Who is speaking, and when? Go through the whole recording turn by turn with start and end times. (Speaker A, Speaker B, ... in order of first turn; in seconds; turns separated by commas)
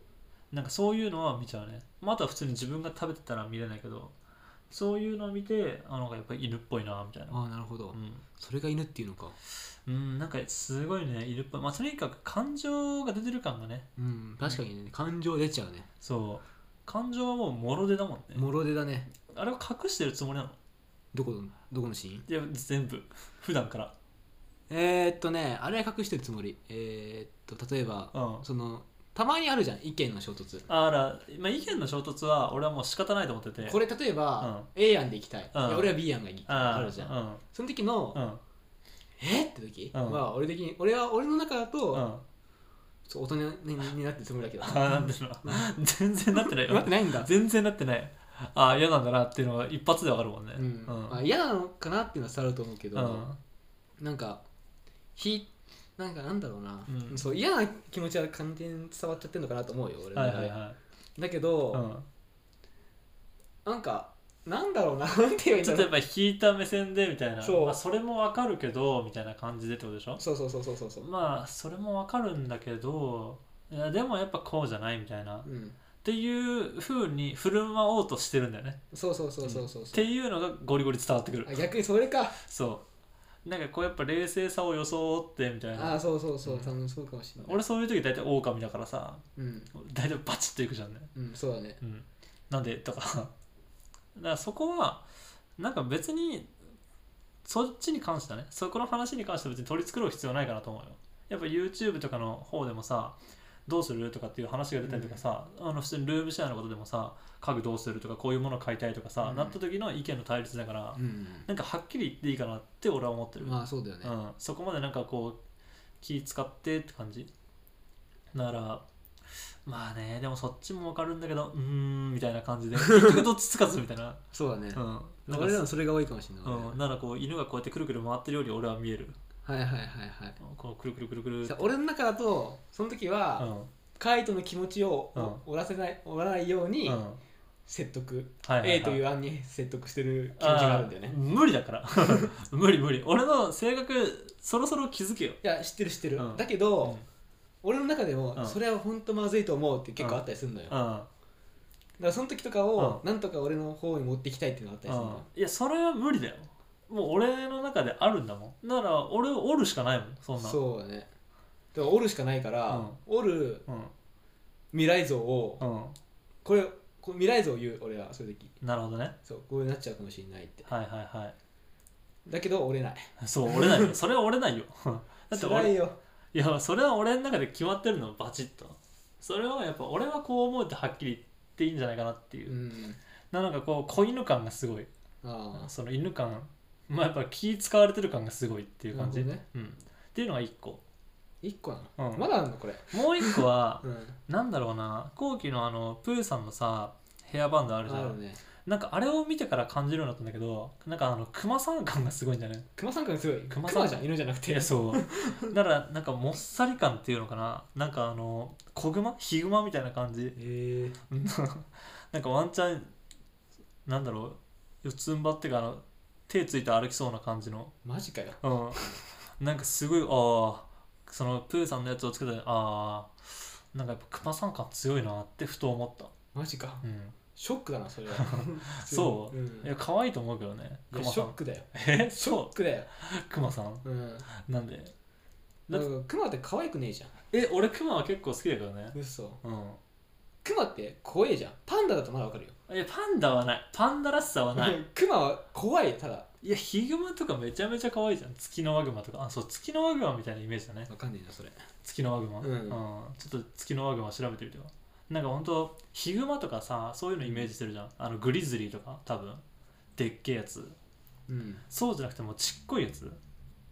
Speaker A: 0.5-4.1, Speaker A: 4.7-7.4, Speaker B: 7.3-9.3, Speaker A: 7.9-8.2, Speaker A: 9.8-13.9, Speaker B: 14.0-15.9, Speaker A: 16.0-18.5, Speaker B: 18.3-19.1, Speaker A: 19.2-20.6, Speaker B: 21.1-22.3, Speaker A: 22.3-23.9, Speaker B: 24.7-30.6, Speaker A: 28.1-28.4, Speaker A: 30.7-33.8, Speaker B: 33.6-38.2, Speaker A: 34.4-34.7, Speaker A: 35.5-35.9, Speaker A: 36.5-37.4, Speaker A: 38.1-38.4, Speaker B: 39.2-42.1, Speaker A: 39.9-40.2, Speaker A: 41.9-42.2, Speaker B: 43.1-45.7, Speaker A: 44.6-51.2, Speaker B: 46.3-47.3, Speaker B: 50.5-53.3, Speaker A: 52.9-53.4, Speaker B: 54.0-54.4, Speaker B: 55.1-60.6, Speaker A: 56.9-57.2, Speaker A: 60.1-60.8, Speaker B: 61.1-61.9, Speaker A: 61.7-62.0, Speaker B: 63.6-65.9, Speaker A: 65.6-70.2, Speaker B: 67.4-67.8, Speaker B: 70.2-71.1, Speaker A: 71.0-75.5, Speaker B: 75.4-75.8, Speaker A: 76.0-78.8, Speaker B: 78.9-80.0, Speaker A: 79.4-81.6, Speaker B: 81.4-82.4, Speaker A: 82.4-82.8, Speaker A: 83.4-86.7, Speaker B: 85.7-87.6, Speaker A: 87.4-91.1, Speaker B: 89.3-89.7, Speaker B: 91.1-91.8, Speaker A: 91.8-93.3, Speaker A: 94.1-95.0, Speaker A: 95.6-96.5, Speaker A: 97.4-115.4, Speaker B: 104.8-105.2, Speaker B: 109.2-109.6, Speaker B: 110.9-111.5, Speaker B: 113.4-114.1, Speaker A: 116.0-117.3, Speaker A: 118.3-118.8, Speaker A: 119.6-124.2, Speaker B: 122.8-123.2, Speaker B: 124.3-126.8, Speaker A: 124.7-125.6, Speaker A: 126.4-129.1, Speaker B: 129.4-130.4, Speaker A: 130.4-131.7, Speaker B: 131.4-137.0, Speaker A: 133.4-133.7, Speaker A: 135.1-135.4, Speaker A: 136.8-137.2, Speaker B: 137.7-141.2, Speaker A: 138.4-139.0, Speaker A: 140.4-145.4, Speaker B: 145.4-147.0, Speaker A: 146.2-147.1, Speaker B: 147.6-150.8, Speaker A: 150.0-151.1, Speaker B: 152.0-155.3, Speaker A: 152.8-153.0, Speaker A: 154.9-160.6, Speaker B: 160.4-161.1, Speaker B: 161.7-163.7, Speaker A: 162.7-163.0, Speaker A: 163.7-163.9, Speaker B: 164.7-165.6, Speaker A: 165.6-165.9, Speaker B: 166.4-168.6, Speaker A: 168.6-169.2, Speaker B: 169.2-170.7, Speaker A: 170.7-171.3, Speaker B: 172.2-173.9, Speaker A: 173.2-175.8, Speaker B: 175.3-176.0, Speaker A: 176.3-182.6, Speaker B: 182.4-183.0, Speaker A: 183.3-184.9, Speaker B: 185.2-185.7, Speaker A: 185.5-190.8, Speaker B: 188.9-189.4, Speaker B: 191.4-194.2, Speaker A: 192.0-192.2, Speaker A: 192.9-202.7, Speaker B: 197.8-198.4, Speaker B: 202.8-205.6, Speaker A: 203.5-210.4, Speaker B: 210.3-211.0, Speaker A: 211.1-212.9, Speaker A: 213.8-217.7, Speaker B: 217.8-218.9, Speaker A: 218.4-226.1, Speaker B: 226.3-226.8, Speaker A: 226.8-227.1, Speaker B: 227.3-229.7, Speaker A: 228.1-234.9, Speaker B: 230.9-232.9, Speaker B: 233.8-234.3, Speaker B: 235.7-237.1, Speaker A: 237.3-239.8, Speaker B: 238.9-239.4, Speaker B: 240.4-242.5, Speaker A: 242.7-244.8, Speaker B: 244.5-246.3, Speaker A: 246.4-250.9, Speaker B: 250.9-251.6, Speaker A: 251.8-259.4, Speaker B: 252.4-252.8, Speaker B: 257.2-257.5, Speaker A: 260.0-260.8, Speaker B: 261.3-261.6, Speaker A: 261.7-263.2